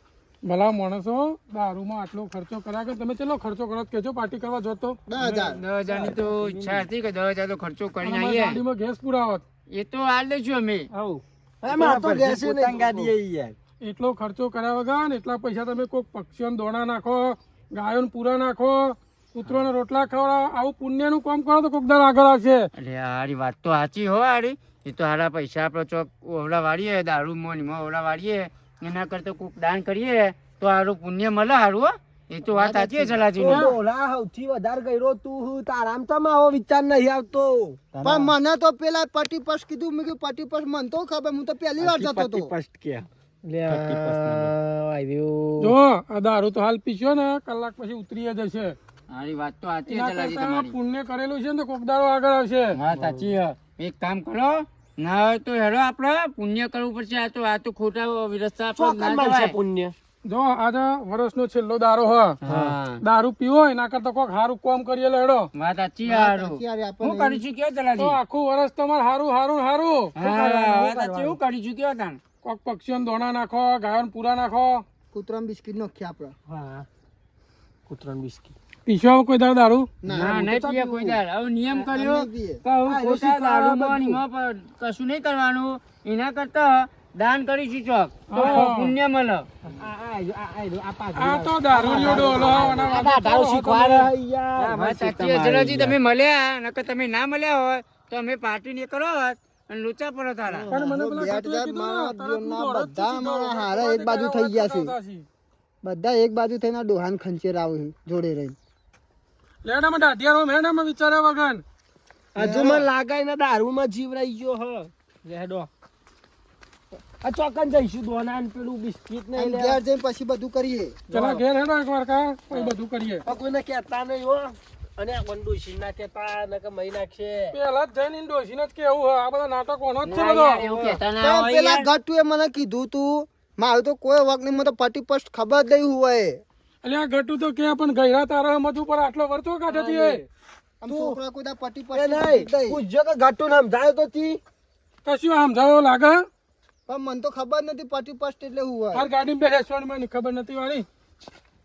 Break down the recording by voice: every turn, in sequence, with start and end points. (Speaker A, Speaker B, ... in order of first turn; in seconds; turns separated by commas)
Speaker A: 0.5-5.0, Speaker B: 5.1-5.6, Speaker C: 5.2-8.6, Speaker D: 5.9-6.7, Speaker A: 8.0-9.4, Speaker C: 9.7-10.9, Speaker D: 10.9-13.1, Speaker E: 11.7-13.6, Speaker A: 13.8-22.7, Speaker C: 22.8-33.7, Speaker B: 32.4-33.3, Speaker D: 33.4-37.8, Speaker A: 33.5-33.8, Speaker E: 37.9-38.2, Speaker B: 38.0-42.5, Speaker E: 41.8-43.1, Speaker D: 43.4-45.8, Speaker C: 43.7-44.5, Speaker A: 45.6-48.8, Speaker C: 49.1-50.8, Speaker A: 49.9-52.8, Speaker C: 52.7-59.6, Speaker D: 52.9-53.3, Speaker D: 58.8-59.9, Speaker A: 60.3-62.4, Speaker C: 62.4-63.0, Speaker D: 62.4-62.8, Speaker A: 63.0-65.5, Speaker C: 65.5-68.2, Speaker B: 66.1-67.4, Speaker A: 68.0-70.2, Speaker C: 70.1-72.2, Speaker D: 70.3-71.4, Speaker A: 72.4-74.8, Speaker B: 75.1-76.3, Speaker D: 76.5-76.9, Speaker D: 77.9-78.5, Speaker A: 78.9-79.9, Speaker B: 80.0-80.4, Speaker D: 80.1-81.2, Speaker C: 80.1-89.5, Speaker B: 81.7-82.6, Speaker D: 82.8-84.2, Speaker A: 88.3-88.9, Speaker D: 88.4-88.6, Speaker D: 89.6-94.8, Speaker A: 91.2-94.1, Speaker B: 92.0-92.5, Speaker C: 92.5-93.2, Speaker E: 94.6-96.0, Speaker C: 94.6-100.7, Speaker D: 100.5-100.9, Speaker A: 100.7-105.2, Speaker B: 100.7-104.9, Speaker B: 105.8-108.6, Speaker A: 109.6-111.6, Speaker D: 112.4-115.7, Speaker B: 112.4-112.9, Speaker D: 117.2-119.8, Speaker B: 119.3-121.0, Speaker D: 121.1-121.4, Speaker A: 121.1-123.2, Speaker D: 122.5-127.5, Speaker A: 127.5-130.7, Speaker C: 130.0-131.9, Speaker D: 130.7-131.0, Speaker B: 131.2-136.4, Speaker A: 136.8-140.2, Speaker D: 139.7-140.2, Speaker B: 140.8-142.8, Speaker D: 140.9-141.2, Speaker D: 141.9-144.4, Speaker A: 145.1-146.2, Speaker B: 146.9-149.1, Speaker A: 148.9-150.9